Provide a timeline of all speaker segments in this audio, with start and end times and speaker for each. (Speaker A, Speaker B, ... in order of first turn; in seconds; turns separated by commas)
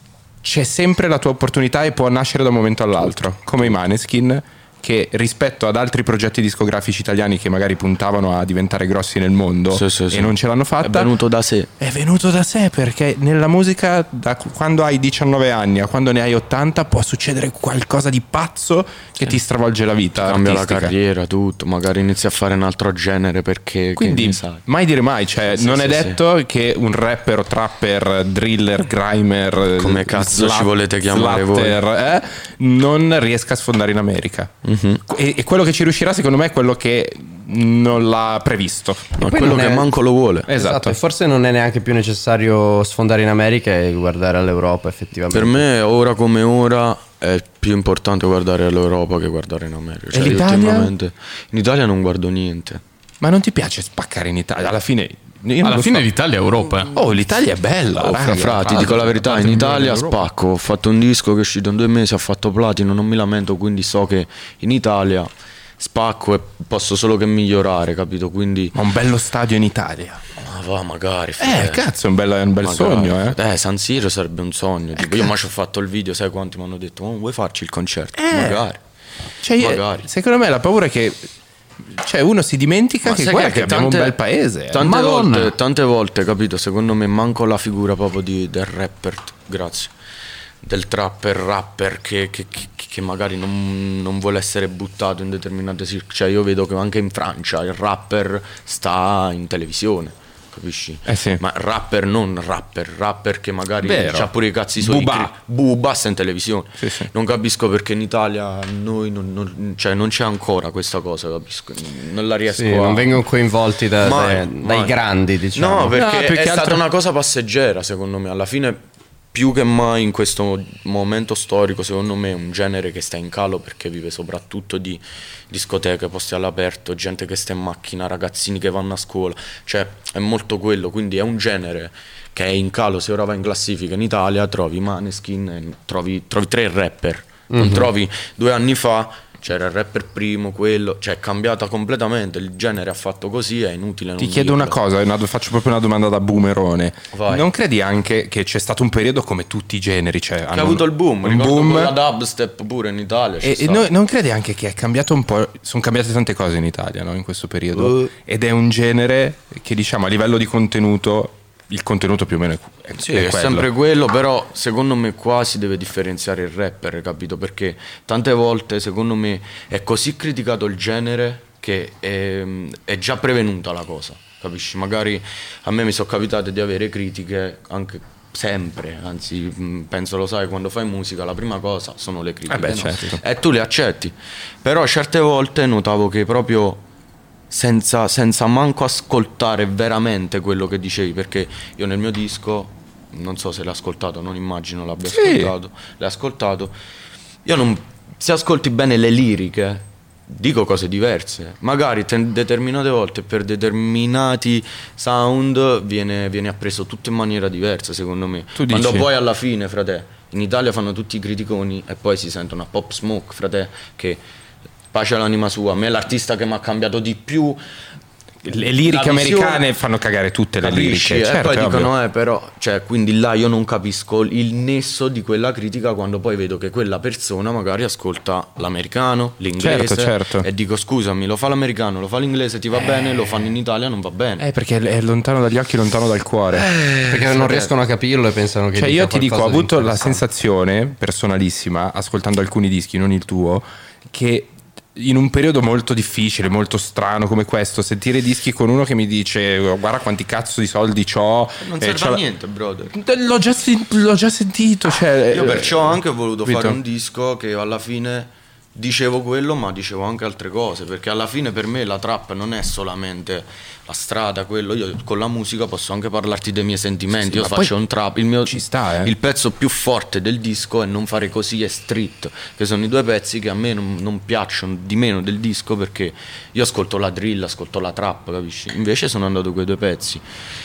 Speaker A: 0.4-11.1, Speaker B: 9.7-11.7, Speaker A: 11.8-20.9, Speaker B: 20.2-24.6, Speaker A: 24.0-34.5, Speaker B: 25.5-26.2, Speaker B: 29.8-31.8, Speaker B: 34.6-35.0, Speaker A: 35.1-39.2, Speaker C: 39.2-39.9, Speaker B: 39.2-40.5, Speaker A: 40.5-41.0, Speaker C: 40.5-45.6, Speaker B: 45.3-52.8, Speaker A: 50.1-50.9, Speaker A: 53.2-56.1, Speaker D: 55.6-56.9, Speaker A: 56.9-60.3, Speaker B: 58.0-68.8, Speaker A: 68.7-70.2, Speaker B: 70.4-71.9, Speaker A: 71.4-73.4, Speaker B: 72.6-78.8, Speaker A: 75.0-75.3, Speaker A: 78.2-78.6, Speaker A: 79.4-81.3, Speaker B: 79.6-80.1, Speaker A: 81.9-84.9, Speaker B: 83.0-84.2, Speaker B: 84.7-89.9, Speaker D: 84.8-85.5, Speaker B: 90.6-113.2, Speaker A: 101.1-101.4, Speaker A: 103.8-105.3, Speaker A: 106.8-107.1, Speaker C: 112.5-115.9, Speaker B: 114.0-115.0, Speaker B: 115.5-118.8, Speaker A: 115.9-116.8, Speaker B: 119.3-144.8, Speaker C: 137.5-137.9, Speaker A: 144.2-152.0, Speaker B: 147.1-147.4, Speaker B: 150.5-153.9, Speaker A: 153.4-163.7, Speaker B: 157.7-158.1, Speaker B: 163.0-186.8, Speaker A: 182.5-183.2, Speaker B: 187.5-196.7, Speaker A: 195.1-195.5, Speaker B: 197.4-214.2, Speaker A: 208.6-209.1, Speaker B: 214.9-217.6, Speaker A: 218.4-221.9, Speaker B: 218.8-219.7, Speaker B: 220.6-234.4, Speaker A: 229.6-230.5, Speaker A: 234.4-236.7, Speaker B: 236.5-237.7, Speaker C: 237.1-240.2, Speaker A: 238.8-252.2, Speaker B: 251.6-252.9, Speaker A: 252.9-256.8, Speaker B: 255.3-280.2, Speaker A: 267.2-267.7, Speaker A: 268.4-269.1